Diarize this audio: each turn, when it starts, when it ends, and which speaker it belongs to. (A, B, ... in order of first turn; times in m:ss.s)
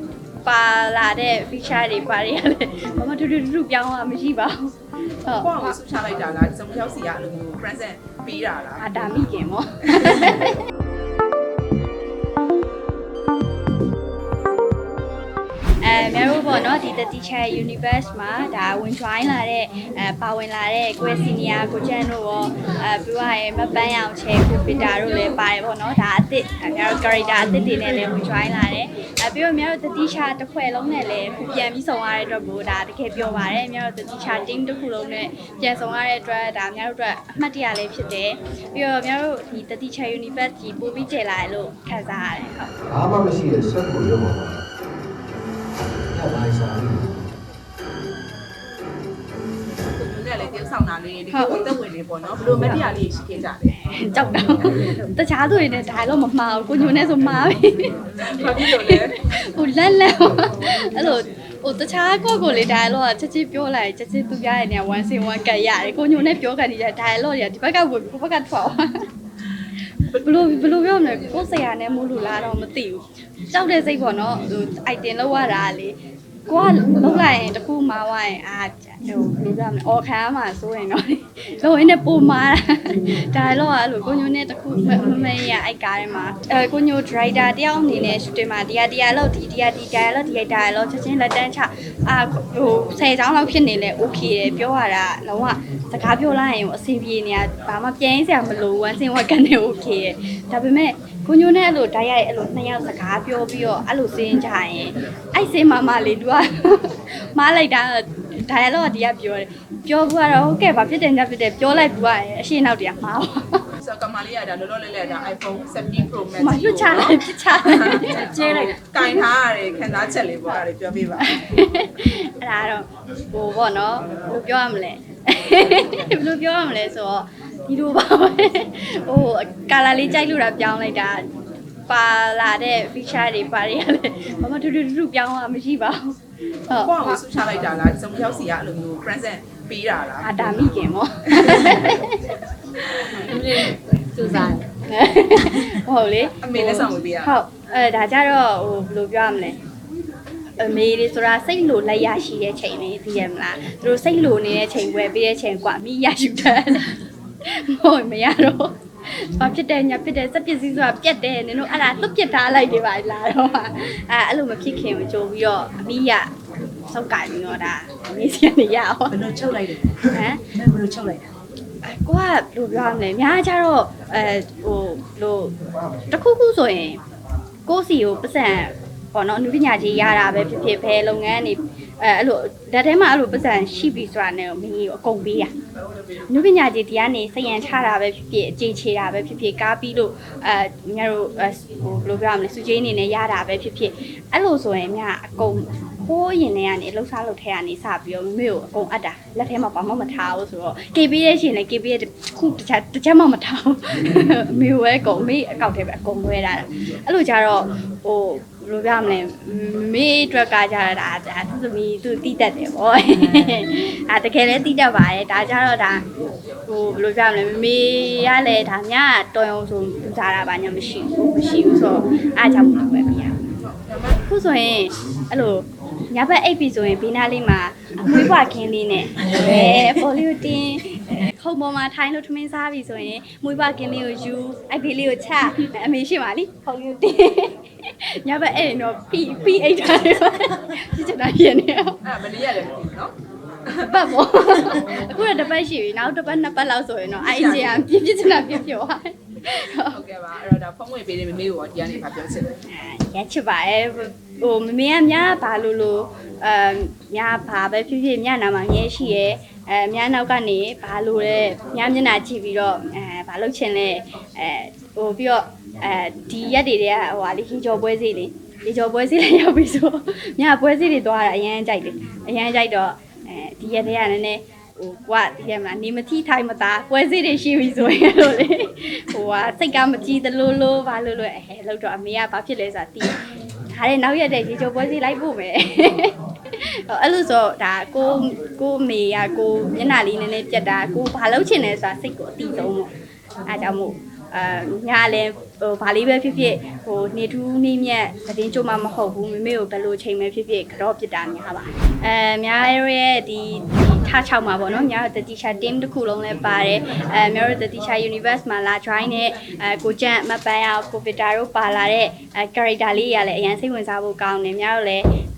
0:00.4-0:05.8 A
0:05.4-0:08.9 B
0:08.8-0:10.6 A
0:15.8-0:42.7 A
0:42.9-0:44.6 C
0:46.1-0:47.3 C
0:50.0-0:53.7 B
0:53.7-0:57.9 A
0:58.3-0:59.2 B
0:58.5-1:08.9 A
1:10.1-1:16.0 A
1:16.5-1:53.6 A
1:53.8-2:01.3 B
1:56.4-1:58.7 A
1:58.0-1:58.8 D
2:01.2-2:11.2 A
2:11.9-2:16.2 A
2:16.7-2:17.2 A
2:16.8-2:20.3 B
2:20.2-2:22.2 A
2:23.0-2:23.3 B
2:23.3-2:24.7 D
2:24.9-2:29.6 A
2:26.4-2:27.3 B
2:30.6-2:49.2 A
2:49.1-2:51.3 D
2:50.1-2:50.4 A
2:51.8-2:55.6 A
2:56.1-2:57.0 A
2:57.7-3:05.5 A
3:05.9-3:06.2 B
3:06.3-3:36.0 A
3:36.7-3:43.4 A
3:43.7-3:44.2 B
3:44.3-4:02.0 A
4:02.0-4:03.2 B
4:03.7-4:10.0 A
4:07.2-4:07.8 B
4:09.9-4:12.5 B
4:12.7-4:43.2 A
4:43.7-4:52.9 A
4:53.5-5:15.1 A